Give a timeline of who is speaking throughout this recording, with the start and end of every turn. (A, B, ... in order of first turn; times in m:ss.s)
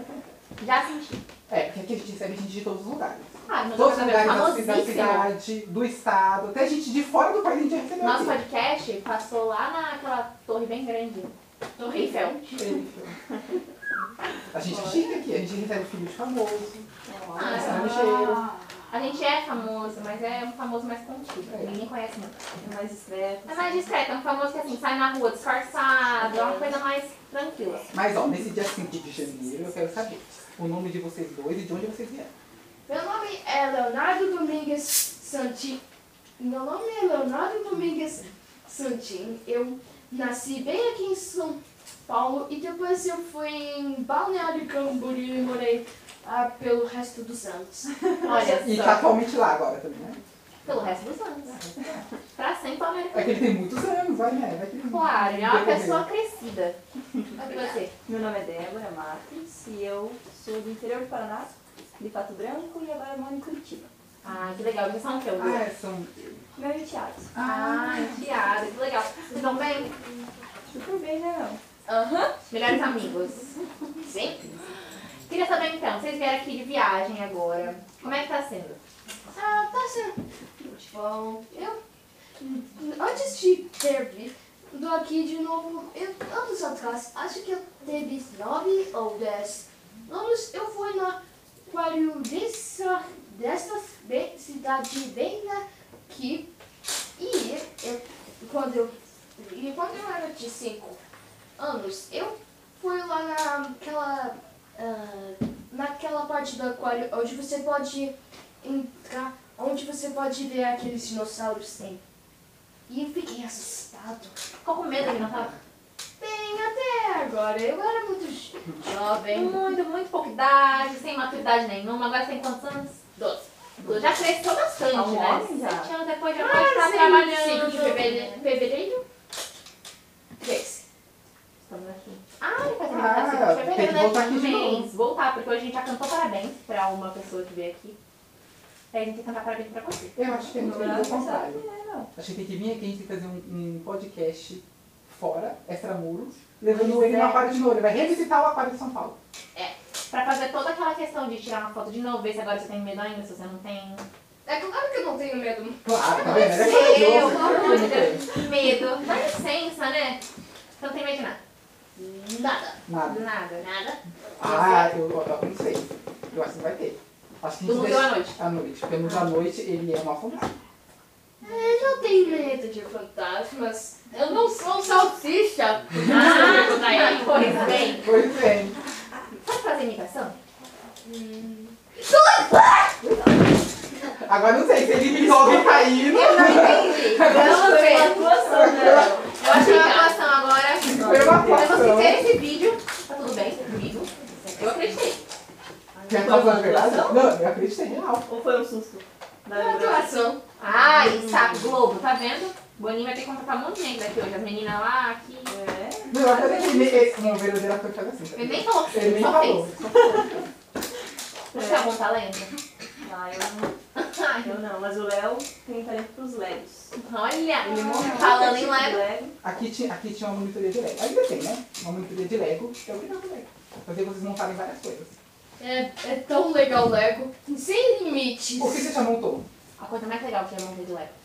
0:00.6-0:01.2 A
0:01.5-0:08.4 B
0:03.5-0:05.3 A
0:08.0-0:12.6 A
0:12.6-0:13.2 B
0:14.5-0:16.8 B
0:14.7-0:15.1 A
0:17.0-0:18.0 C
0:17.4-0:22.4 A
0:17.5-0:18.5 B
0:21.5-0:21.8 B
0:22.6-0:23.9 C
0:23.5-0:27.9 A
0:26.2-0:26.8 C
0:27.9-0:32.3 B
0:32.9-0:35.8 D
0:36.4-0:47.9 D
0:48.2-0:49.2 A
0:48.3-0:50.2 B
0:50.6-0:51.6 A
0:51.6-0:52.0 B
0:52.4-0:53.5 A
0:53.1-0:56.1 B
0:54.8-0:56.8 A
0:57.4-0:57.9 A
0:58.0-1:03.9 C
1:04.2-1:05.6 A
1:05.4-1:06.1 B
1:06.5-1:07.3 C
1:07.3-1:08.1 B
1:07.4-1:09.9 A
1:10.7-1:11.6 C
1:11.9-1:12.3 D
1:12.5-1:13.6 A
1:14.0-1:14.5 D
1:15.3-1:18.8 A
1:19.3-1:21.8 D
1:22.4-1:36.5 D
1:37.2-1:41.0 D
1:41.6-1:52.0 D
1:52.9-1:54.4 D
1:54.6-1:55.6 A
1:56.2-1:59.6 D
1:59.3-2:03.0 A
2:03.2-2:03.4 D
2:03.8-2:04.2 B
2:03.8-2:08.5 A
2:04.9-2:05.9 C
2:06.3-2:09.0 D
2:10.4-2:10.8 D
2:11.7-2:18.0 A
2:12.8-2:14.9 B
2:18.9-2:20.2 A
2:20.2-2:21.6 B
2:20.3-2:22.1 C
2:22.2-2:29.2 B
2:26.7-2:27.4 A
2:29.6-2:34.0 A
2:34.5-2:38.2 D
2:35.8-2:38.3 B
2:36.2-2:40.2 A
2:40.8-2:41.4 A
2:42.4-2:44.9 A
2:42.9-2:43.3 B
2:44.4-2:50.5 B
2:47.6-2:48.4 A
2:51.4-2:57.9 D
2:56.0-2:58.1 A
2:57.6-2:58.8 B
2:59.4-3:00.4 A
3:01.0-3:01.8 D
3:02.1-3:02.9 A
3:03.0-3:03.3 B
3:04.2-3:10.1 B
3:05.6-3:15.2 A
3:07.1-3:09.4 C
3:10.8-3:11.7 C
3:10.9-3:12.3 B
3:15.9-3:17.3 C
3:16.1-3:18.3 B
3:18.2-3:20.1 C
3:19.5-3:20.4 D
3:20.6-3:25.5 A
3:20.7-3:21.7 C
3:25.5-3:27.1 C
3:26.1-3:30.5 B
3:28.4-3:29.7 A
3:31.5-3:32.5 A
3:31.5-3:32.0 C
3:33.0-3:33.8 C
3:34.0-3:34.5 A
3:34.4-3:37.0 C
3:37.0-3:39.0 A
3:37.6-3:39.3 C
3:39.4-3:45.1 B
3:45.6-3:48.9 D
3:48.6-3:49.4 B
3:49.8-3:51.1 A